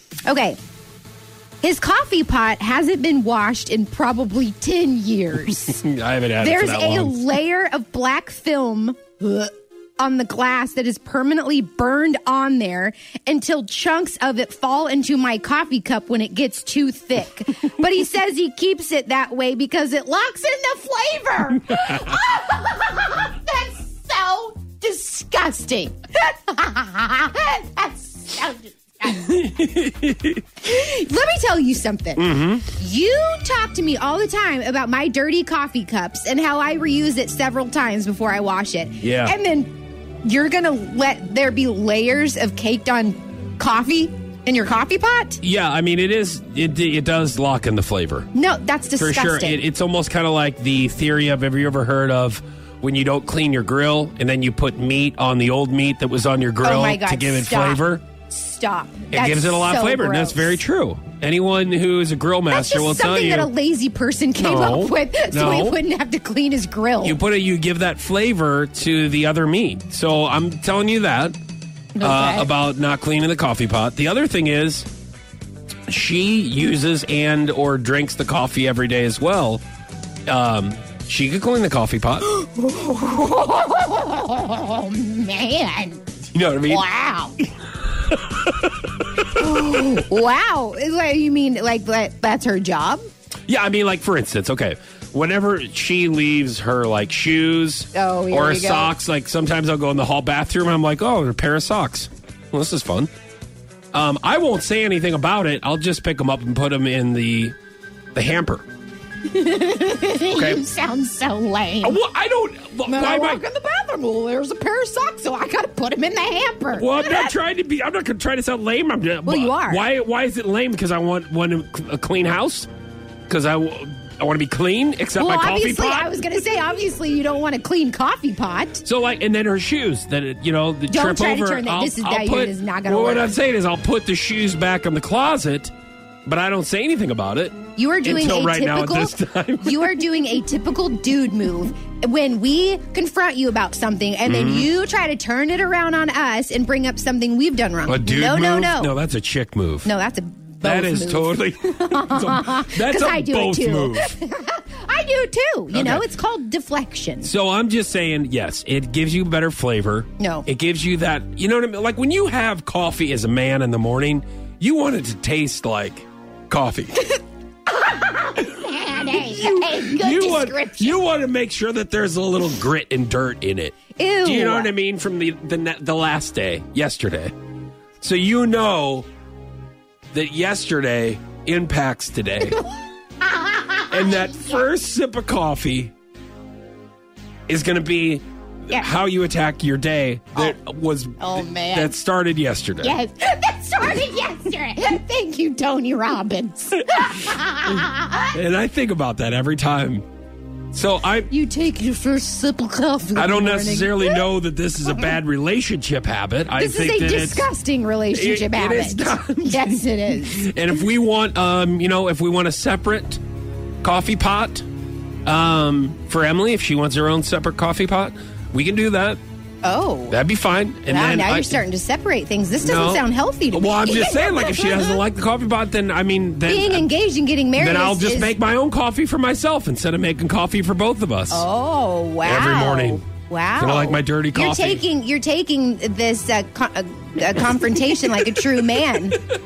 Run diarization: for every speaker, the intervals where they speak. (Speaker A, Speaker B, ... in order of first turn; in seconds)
Speaker A: 0.3-0.6, 1.6-5.8, 6.4-29.5, 30.6-39.7, 40.2-45.4, 48.3-49.6, 56.6-60.6, 62.5-67.2, 72.0-72.5, 82.3-86.0, 86.7-87.3, 89.3-93.0, 97.9-98.9, 109.2-112.0, 112.8-117.3, 119.2-119.8, 125.2-128.8, 130.9-133.3, 137.8-148.9, 149.8-157.3, 160.2-160.5, 167.7-171.0, 173.9-174.7, 183.2-184.6, 191.2-191.9, 192.8-198.3, 201.3-204.2, 206.6-210.7, 219.6-220.2, 220.9-225.0, 226.5-228.3, 231.3-239.2
Speaker B: 5.6-7.2, 29.1-30.4, 32.1-32.7, 39.0-39.4, 45.4-48.3, 49.0-58.0, 59.1-63.5, 64.4-65.8, 67.0-71.3, 72.0-74.9, 75.9-79.6, 80.3-82.3, 86.3-86.8, 88.1-90.0, 93.5-103.1, 103.9-107.5, 108.1-108.6, 110.3-110.6, 111.8-113.4, 116.7-122.7, 123.3-126.3, 128.8-135.7, 136.2-139.9, 144.3-144.7, 147.9-149.9, 150.6-154.1, 155.7-156.0, 157.2-167.1, 169.0-177.3, 178.0-179.1, 180.1-182.6, 183.9-185.9, 187.5-192.9, 198.3-200.0, 200.7-201.3, 203.1-207.4, 208.1-213.2, 213.8-214.6, 215.2-219.2, 220.1-221.6, 222.6-226.9, 227.6-231.4, 232.2-233.0, 233.6-234.8